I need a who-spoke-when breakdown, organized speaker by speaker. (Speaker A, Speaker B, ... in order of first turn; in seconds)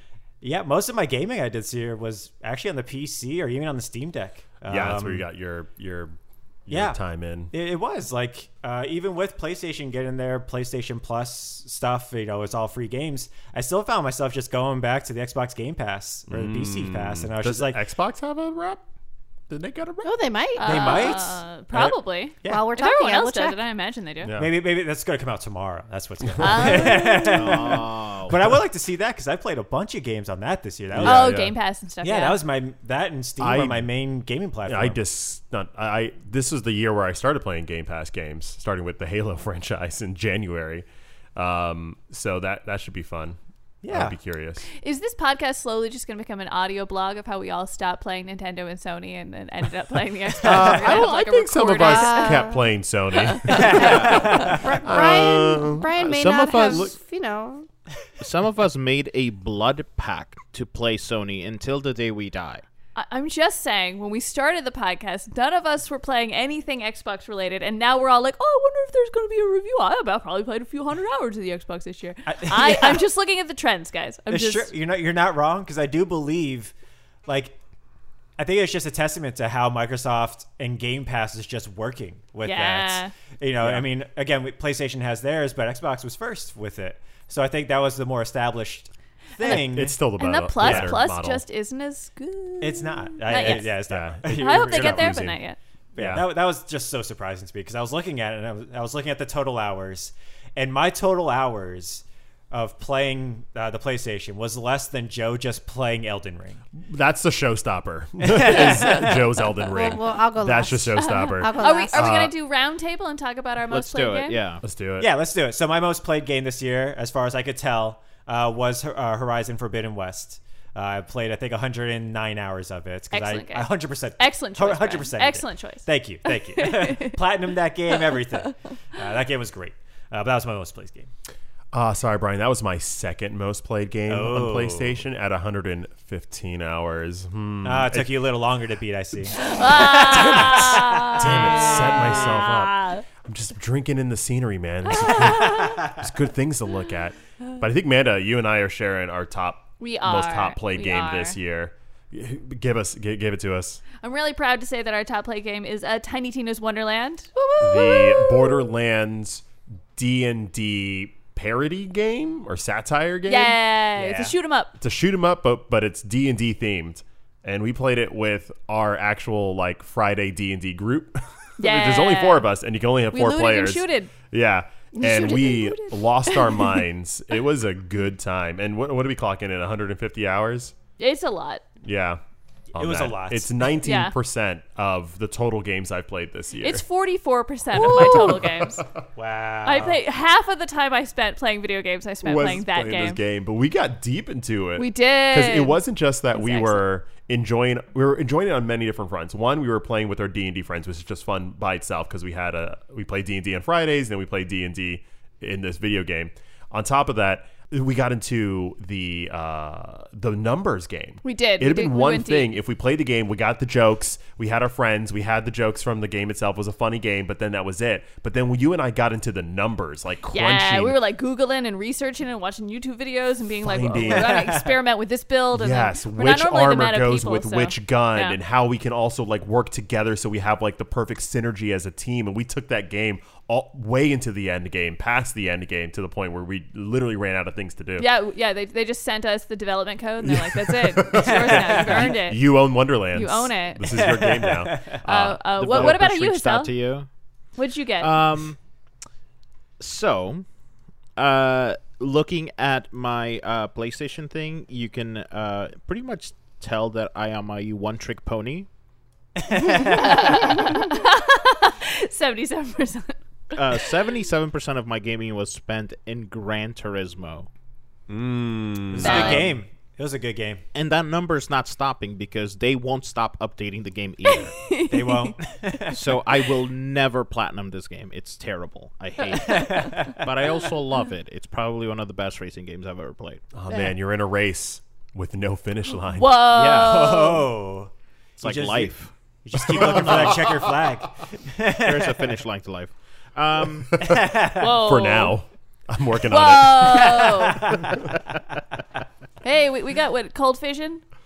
Speaker A: 0.4-5.3, 6.7-7.0, 7.5-17.8, 20.6-21.9, 24.4-31.4, 32.0-35.0, 43.8-44.1, 53.5-54.7, 72.3-73.0, 74.3-76.7, 77.3-77.6, 78.4-90.0, 90.6-90.9, 92.6-95.2, 96.0-106.6, 108.2-109.3, 115.0-131.1, 134.1-135.0, 137.6-142.0, 164.0-164.3, 182.7-183.6, 189.2-190.0, 224.1-224.7, 241.2-242.2, 243.9-245.0, 259.4-260.4, 268.9-270.6, 274.9-276.0, 279.4-280.2, 286.6-292.4, 294.0-294.7, 296.9-298.0
Speaker B: 4.7-6.2, 6.7-7.5, 16.3-18.8, 19.5-20.2, 24.2-24.5, 26.4-26.6, 30.9-31.6, 33.4-33.9, 34.7-43.4, 43.9-44.6, 50.4-56.9, 89.4-91.4, 93.3-95.4, 96.0-96.3, 106.8-112.3, 114.6-115.1, 131.7-138.1, 140.1-153.8, 157.6-163.6, 164.8-180.7, 181.8-182.2, 182.8-186.8, 187.7-189.0, 192.2-221.0, 223.6-224.5, 225.5-238.1, 240.2-245.9, 268.1-269.2, 283.5-286.4, 289.8-290.5, 294.0-297.2
Speaker C: 20.0-21.2, 22.4-23.6, 51.8-52.6, 53.6-57.7, 109.5-112.2, 175.0-176.0
Speaker D: 20.6-24.3, 26.4-27.7, 31.0-32.4, 44.7-52.6, 53.2-53.8, 63.0-74.7, 82.5-83.1, 89.4-89.7, 90.2-95.6, 111.0-114.4, 123.1-127.2, 139.4-143.1, 144.9-145.8, 149.8-151.4, 154.0-158.6, 163.3-164.8, 171.6-172.5, 173.1-174.1, 181.0-181.6, 183.8-184.1, 186.6-188.8, 189.7-193.2, 194.8-196.9, 211.2-212.5, 220.3-228.4, 238.0-242.5, 243.1-244.2, 245.1-246.7, 247.6-248.2, 259.7-263.8, 269.0-269.5, 274.2-275.4, 279.4-279.7, 286.1-287.4, 294.6-295.4, 296.3-297.6, 299.4-301.0
Speaker E: 27.3-28.5, 53.8-54.3, 56.1-56.9, 58.2-62.6, 113.7-114.6, 245.5-247.1, 248.0-248.6, 249.8-250.4, 251.2-258.7, 263.5-267.5, 268.9-269.6, 270.7-274.7, 275.9-283.4, 286.5-287.3, 288.4-289.1, 289.7-290.4, 291.8-294.0